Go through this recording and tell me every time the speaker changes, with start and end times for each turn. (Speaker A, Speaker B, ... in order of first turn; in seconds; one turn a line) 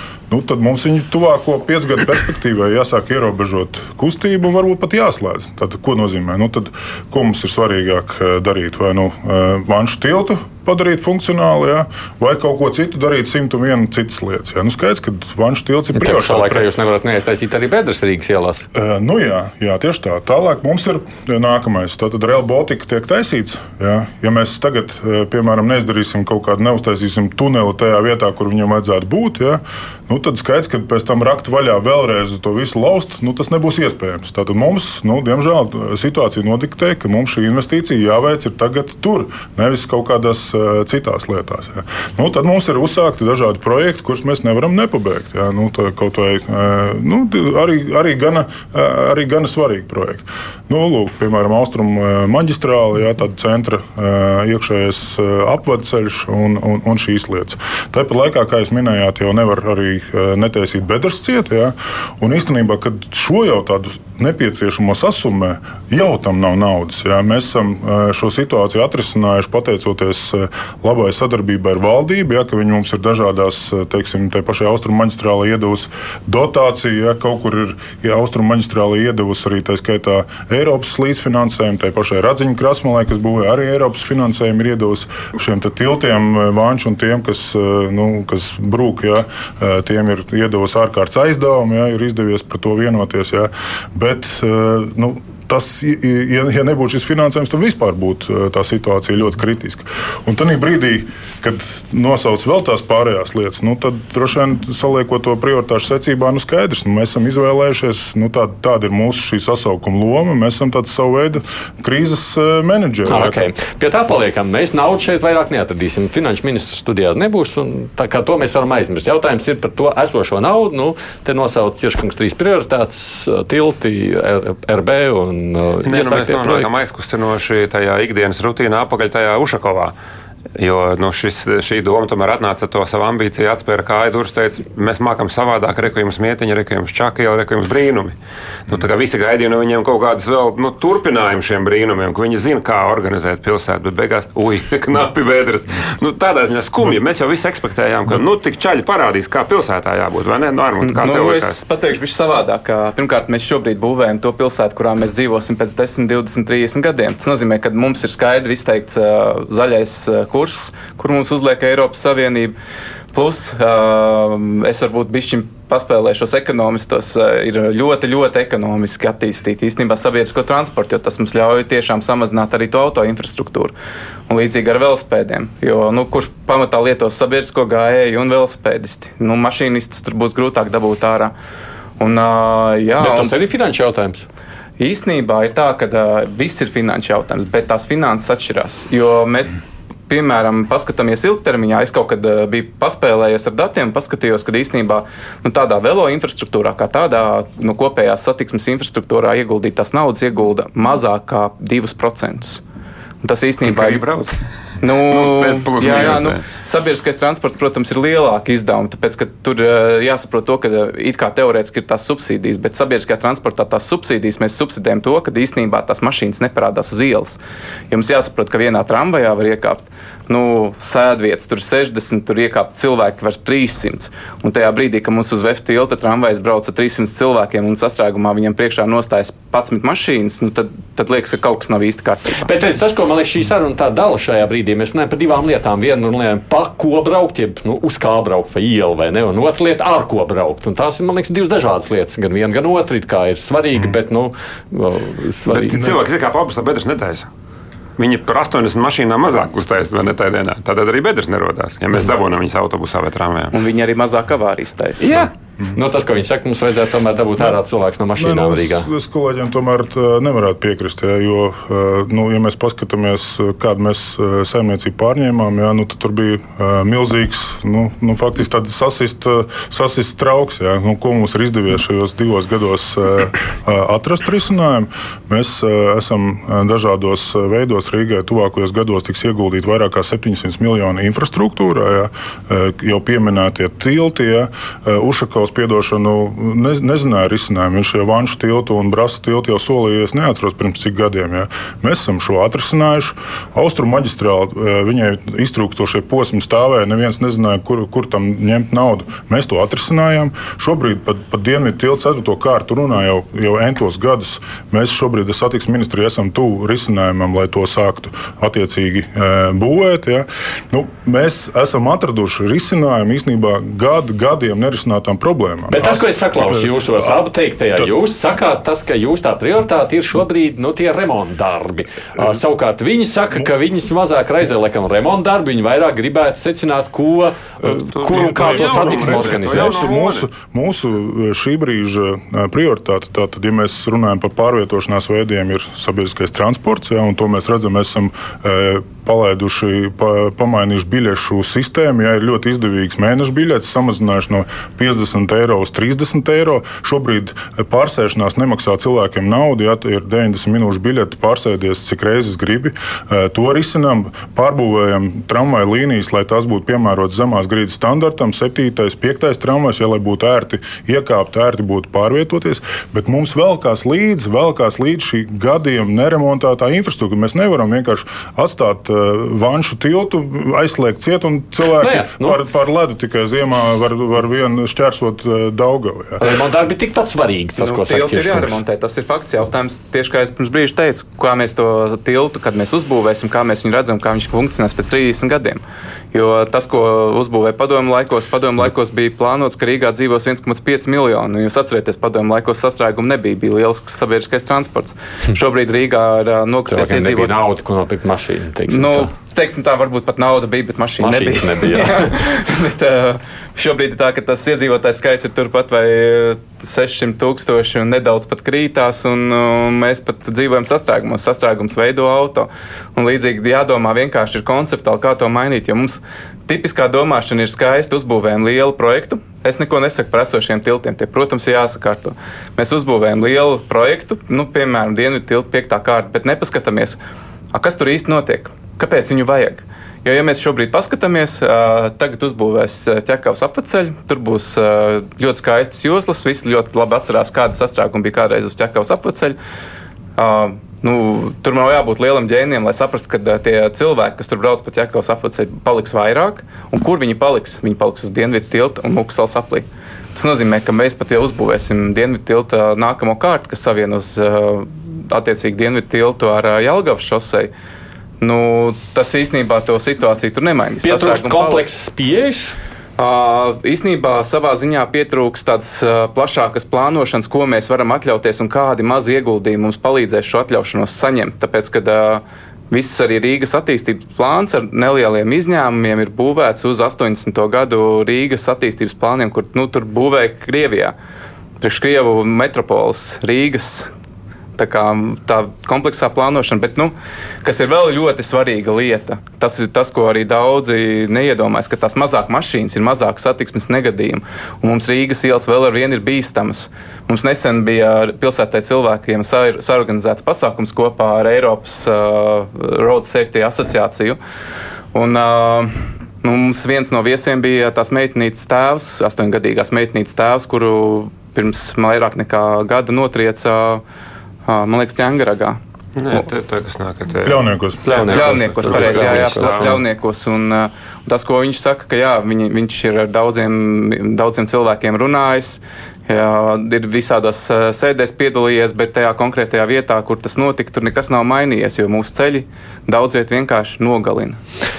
Speaker A: 0.3-16.7
Speaker B: 15.9-18.7
Speaker A: 18.7-113.4
Speaker B: 113.1-126.7
Speaker C: 125.8-129.9
Speaker C: 130.6-138.2
Speaker C: 138.7-151.6
Speaker D: 150.8-162.6
Speaker D: 163.1-173.7
Speaker D: 174.3-181.3
Speaker D: 182.0-183.3
Speaker B: 183.0-184.3
Speaker D: 184.8-189.5
Speaker D: 190.1-202.6
Speaker D: 203.2-204.0
Speaker C: 203.6-204.4
Speaker D: 204.8-217.4
Speaker C: 205.0-206.4
Speaker D: 217.9-232.5
Speaker B: 232.4-245.8
Speaker C: 245.5-247.3
Speaker C: 248.0-253.5
Speaker D: 253.5-255.2
Speaker C: 255.0-255.3
Speaker B: 255.7-258.9
Speaker A: 258.1-317.2
Speaker B: 315.7-329.9
Speaker A: 327.6-376.3
Speaker C: 327.9-330.3
Speaker B: 371.8-372.4
Speaker B: 376.2-378.6
Speaker D: 377.6-397.4
Speaker B: 396.7-399.1
Speaker D: 398.7-427.0
Speaker B: 401.0-402.1
Speaker D: 427.5-439.4
Speaker D: 440.2-457.5
Speaker D: 458.2-461.7
Speaker B: 460.8-462.6
Speaker D: 463.0-480.9
Speaker D: 481.6-483.9
Speaker D: 484.6-504.2
Speaker D: 504.9-513.8
Speaker D: 514.5-515.6
Speaker C: 516.0-519.8
Speaker A: 517.2-518.4
Speaker B: 517.9-519.8
Speaker D: 518.1-534.4